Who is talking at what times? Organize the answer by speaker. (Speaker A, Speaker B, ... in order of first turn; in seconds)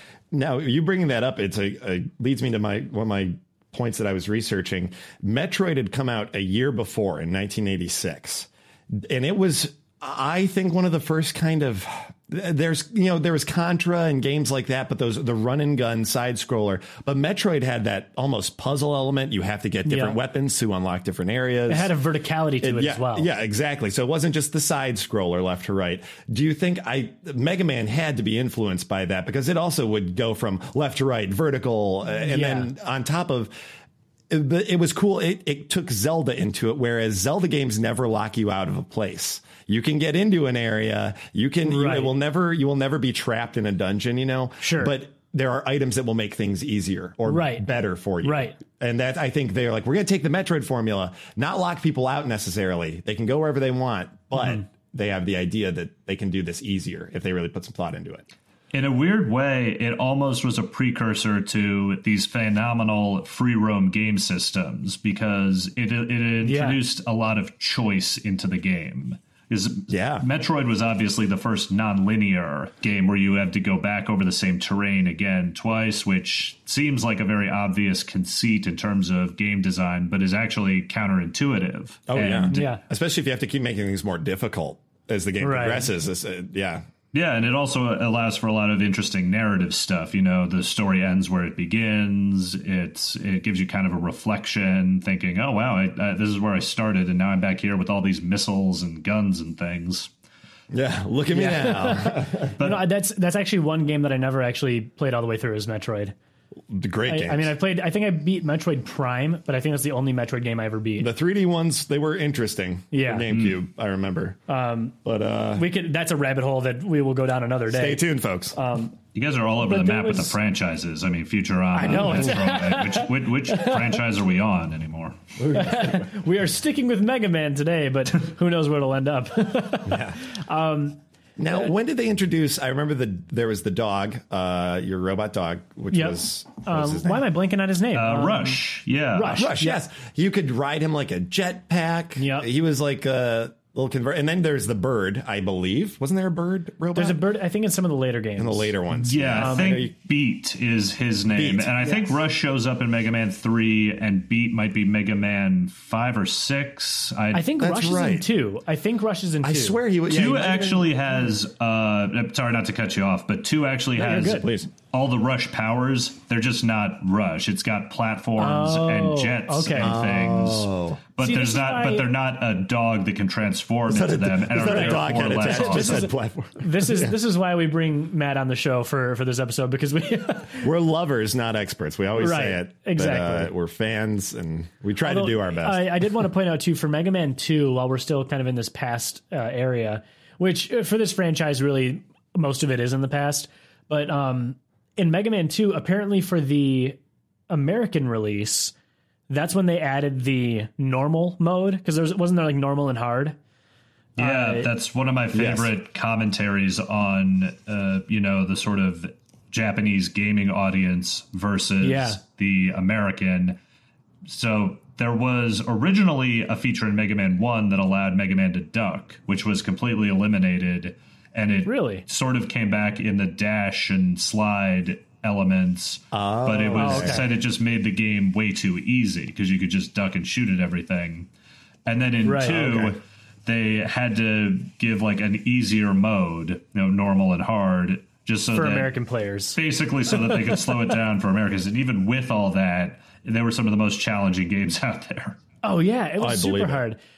Speaker A: 0.3-21.9, 22.6-33.5, 34.3-58.2, 69.9-70.2, 82.1-86.8, 100.7-102.5, 106.7-107.5, 111.0-114.4, 115.0-115.7, 117.7-118.5, 121.9-122.3, 125.4-126.1, 129.9-130.2, 131.4-137.2, 139.4-147.2, 148.4-149.9, 151.3-151.9, 157.6-158.2, 159.4-160.9, 164.2-164.7, 169.8-171.0, 173.9-177.1, 180.6-186.2, 205.3-205.7, 226.1-227.2, 232.4-232.9, 246.2-246.8
Speaker B: 19.9-20.1, 21.7-23.3, 32.2-32.7, 41.7-42.1, 44.6-44.9, 47.2-47.7, 48.2-48.6, 66.4-66.8, 82.5-82.8, 85.4-85.9, 101.3-106.1, 107.1-111.1, 112.9-113.3, 114.5-115.0, 115.5-119.0, 119.6-120.3, 121.7-124.0, 125.5-131.0, 135.9-138.6, 139.1-139.8, 142.2-142.5, 146.9-148.7, 149.4-149.8, 157.3-160.7, 163.9-164.5, 168.4-170.0, 171.2-172.1, 174.6-180.7, 182.2-183.5, 185.0-198.7, 199.3-203.4, 204.2-204.7, 211.8-212.2, 221.6-222.0, 226.7-227.3, 232.2-232.6, 238.5-239.6, 240.1-240.6, 245.6-247.0
Speaker C: 58.7-82.7, 87.1-100.1, 102.6-102.8, 119.1-125.2, 137.9-139.5, 149.0-157.5, 160.1-176.1, 204.2-213.6, 214.2-231.3, 231.8-238.9, 239.5-245.4